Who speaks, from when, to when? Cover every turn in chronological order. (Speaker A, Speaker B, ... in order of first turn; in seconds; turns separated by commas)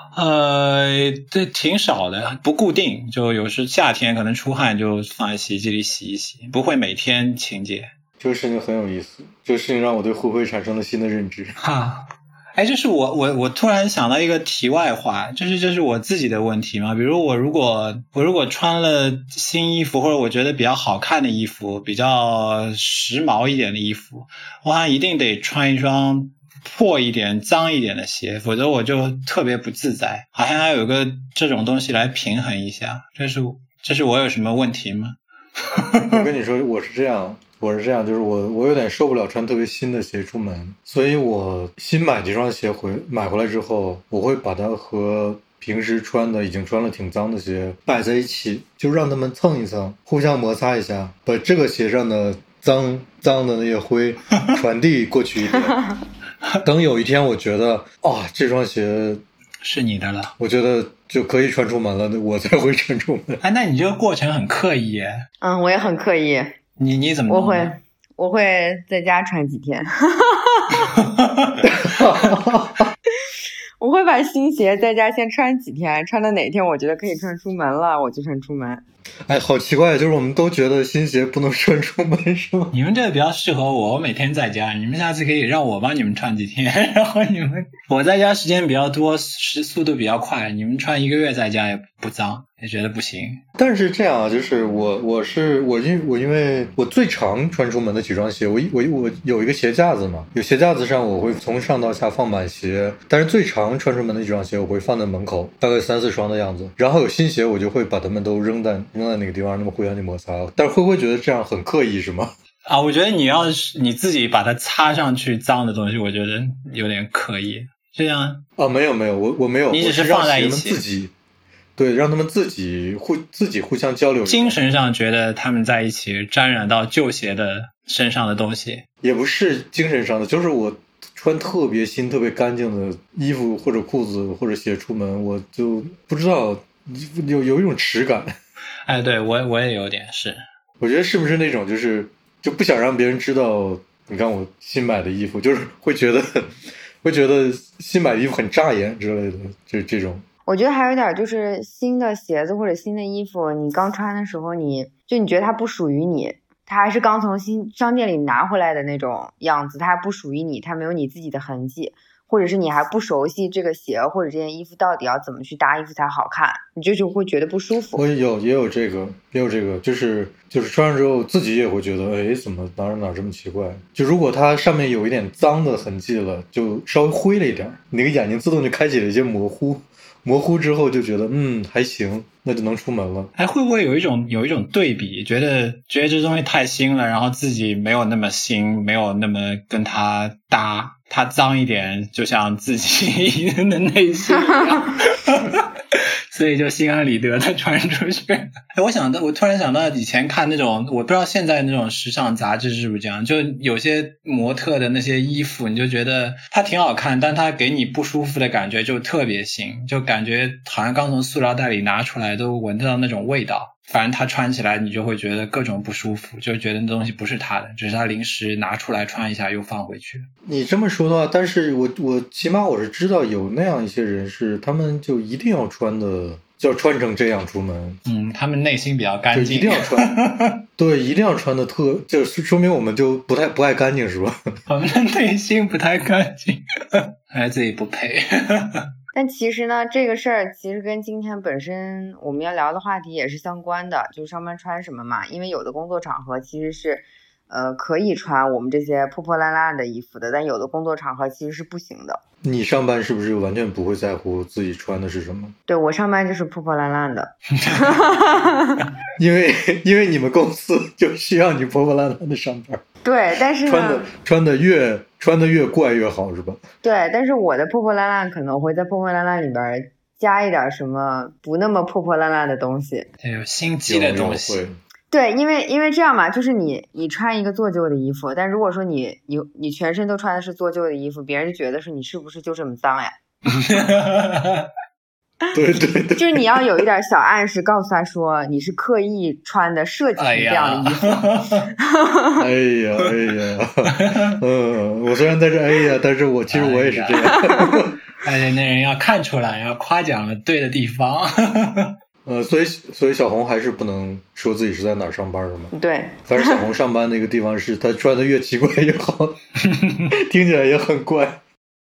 Speaker A: 0.1-7.9, Speaker B: 8.2-11.6, Speaker A: 11.6-36.2, Speaker B: 36.0-55.8, Speaker C: 55.5-56.0, Speaker B: 56.6-59.2, Speaker A: 59.6-60.3, Speaker B: 60.4-63.4, Speaker A: 63.4-65.2, Speaker C: 65.4-66.6, Speaker A: 66.8-67.7, Speaker C: 67.3-70.9, Speaker A: 71.0-71.6, Speaker B: 71.6-72.9, Speaker C: 73.3-78.8, Speaker B: 79.3-82.8, Speaker A: 82.7-93.4, Speaker B: 93.6-112.3, Speaker A: 112.7-118.4, Speaker B: 118.6-121.1, Speaker A: 119.7-120.8, Speaker B: 121.8-124.6, Speaker A: 124.3-128.8, Speaker B: 129.0-138.3, Speaker A: 138.9-140.4, Speaker B: 140.8-146.5, Speaker B: 147.0-150.2, Speaker C: 150.5-168.0, Speaker B: 167.9-183.3, Speaker A: 183.4-220.3, Speaker B: 220.5-228.0, Speaker A: 228.1-230.6, Speaker B: 229.3-230.1, Speaker B: 230.8-234.6, Speaker A: 234.7-238.9, Speaker C: 239.1-252.2, Speaker B: 252.4-255.6, Speaker C: 255.7-258.9, Speaker A: 257.6-257.9, Speaker B: 259.2-262.8, Speaker C: 263.0-264.1, Speaker B: 263.6-266.6, Speaker C: 266.8-273.1, Speaker A: 273.2-274.6, Speaker B: 273.9-274.8, Speaker C: 275.1-283.1, Speaker A: 283.6-284.7, Speaker B: 285.5-286.5, Speaker C: 286.2-292.5, Speaker A: 290.2-291.7, Speaker B: 292.4-298.0, Speaker A: 293.9-294.4, Speaker A: 296.5-297.6, Speaker C: 297.4-297.9, Speaker A: 298.2-302.0, Speaker B: 302.2-305.7, Speaker C: 305.7-306.6, Speaker B: 306.3-309.4, Speaker B: 310.1-311.4